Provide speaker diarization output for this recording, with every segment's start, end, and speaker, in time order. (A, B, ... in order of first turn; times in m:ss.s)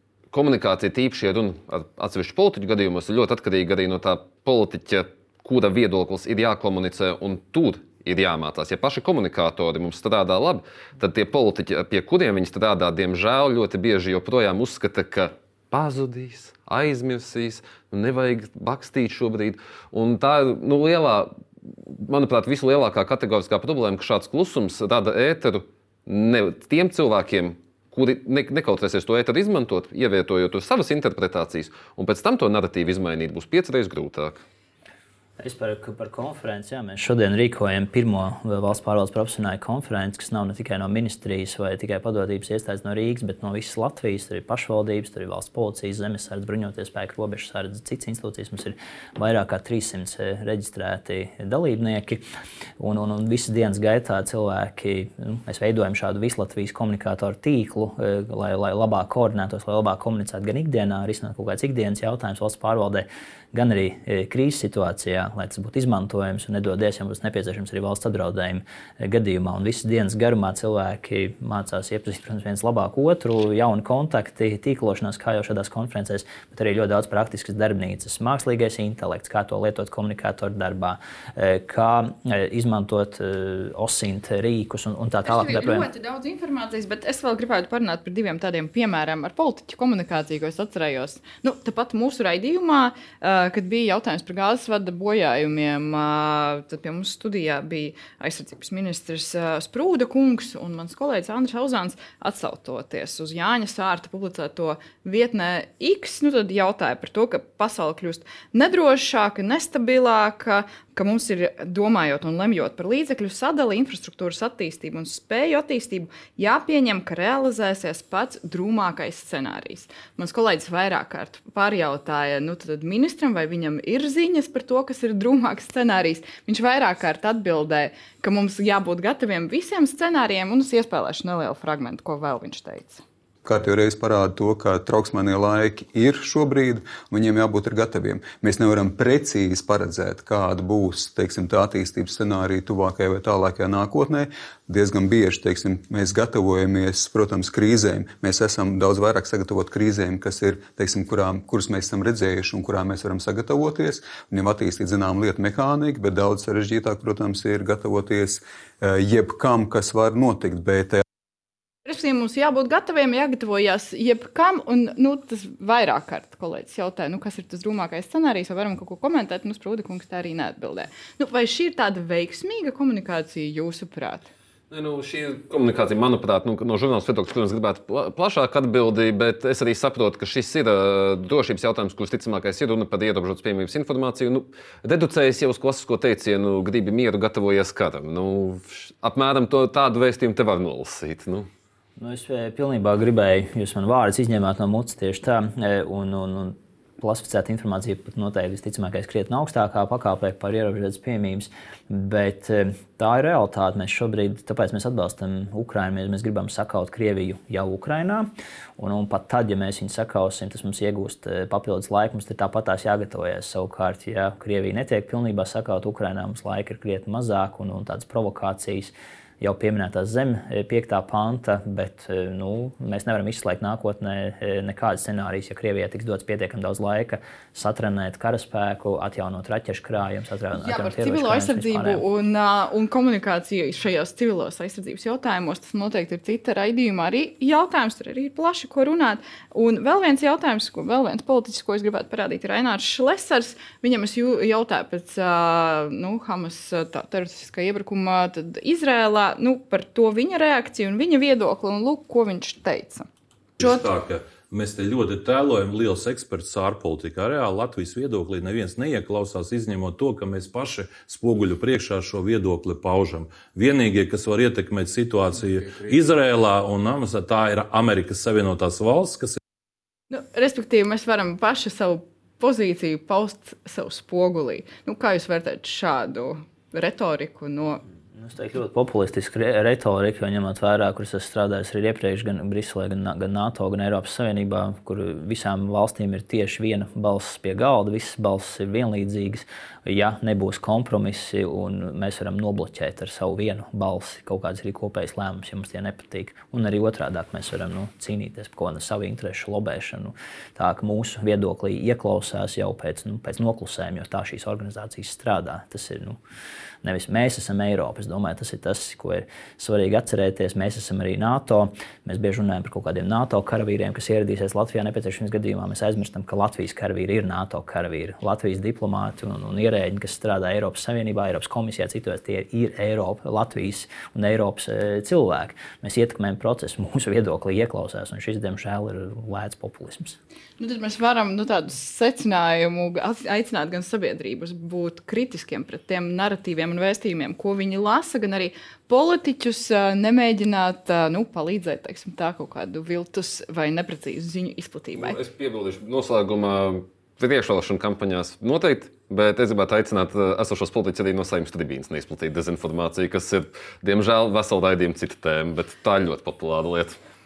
0:00.3-0:34.4 A
0:35.4-0:52.2 B
0:52.8-1:25.9 B
1:25.2-2:13.0 C
2:13.4-2:41.0 D
2:41.9-2:54.3 C
2:54.7-3:11.5 A
3:12.0-3:52.0 B
3:50.6-4:13.1 C
4:13.6-4:29.4 E
4:30.1-4:37.8 C
4:38.1-5:06.2 B
5:06.8-5:30.2 B
5:30.6-5:45.2 C
5:45.0-5:57.0 A